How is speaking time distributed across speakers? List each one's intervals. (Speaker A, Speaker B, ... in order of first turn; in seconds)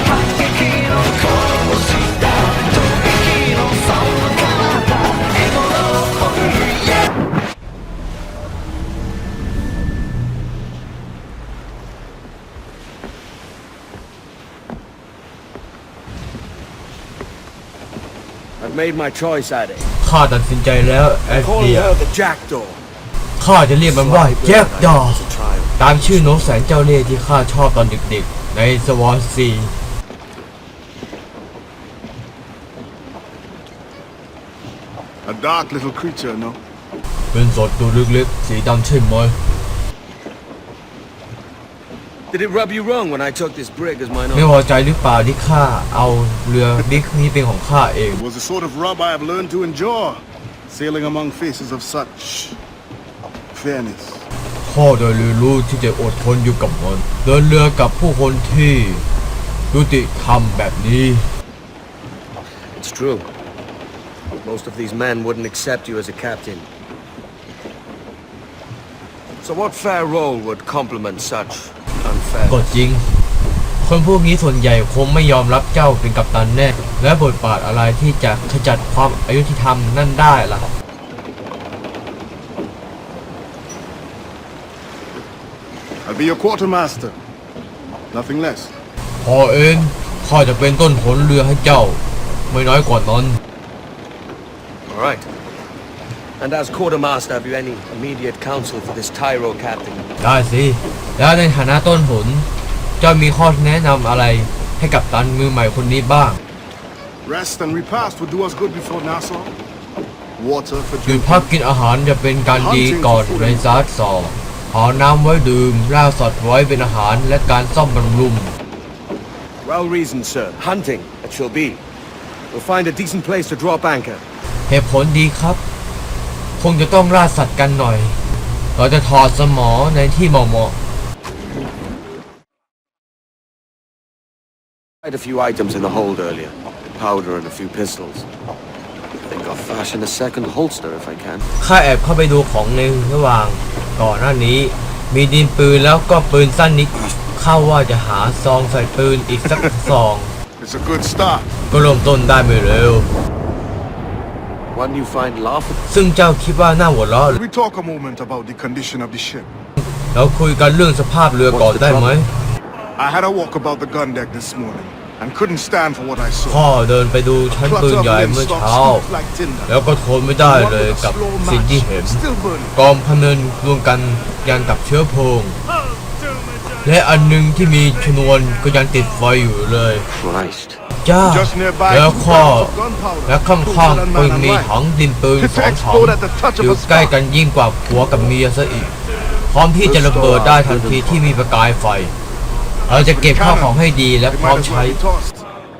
Speaker A: 0.4-1.1, 3.5-4.7, 18.6-19.9, 21.3-22.8, 23.8-25.9, 42.3-44.5, 62.8-63.3, 64.4-66.7, 69.4-72.7, 94.9-95.2, 96.4-100.1, 119.6-121.8, 122.5-124.2, 135.0-138.2, 139.3-141.5, 154.7-155.8, 161.5-162.2, 180.1-180.8, 189.8-191.3
Speaker B: 20.0-21.9, 23.4-25.2, 25.8-29.7, 37.3-39.4, 44.3-48.2, 54.6-59.0, 59.7-61.3, 72.5-73.0, 73.8-80.7, 89.2-93.4, 100.2-102.5, 103.0-106.4, 111.0-118.5, 124.7-125.6, 126.6-128.2, 128.8-130.7, 141.6-150.3, 151.7-153.1, 155.9-157.4, 159.8-162.3, 166.5-169.0, 169.7-172.2, 172.7-175.6, 176.8-180.1, 181.0-182.8, 183.3-188.9, 189.5-192.1, 192.9-195.0
Speaker C: 35.2-36.6, 48.1-52.6, 53.5-54.2, 86.0-87.2, 88.1-88.7, 107.2-109.5, 110.4-111.5, 112.5-113.8, 150.6-151.5, 157.3-159.5, 163.0-166.6, 167.5-169.7, 170.4-172.7, 181.2-184.7, 185.4-187.2, 192.9-195.4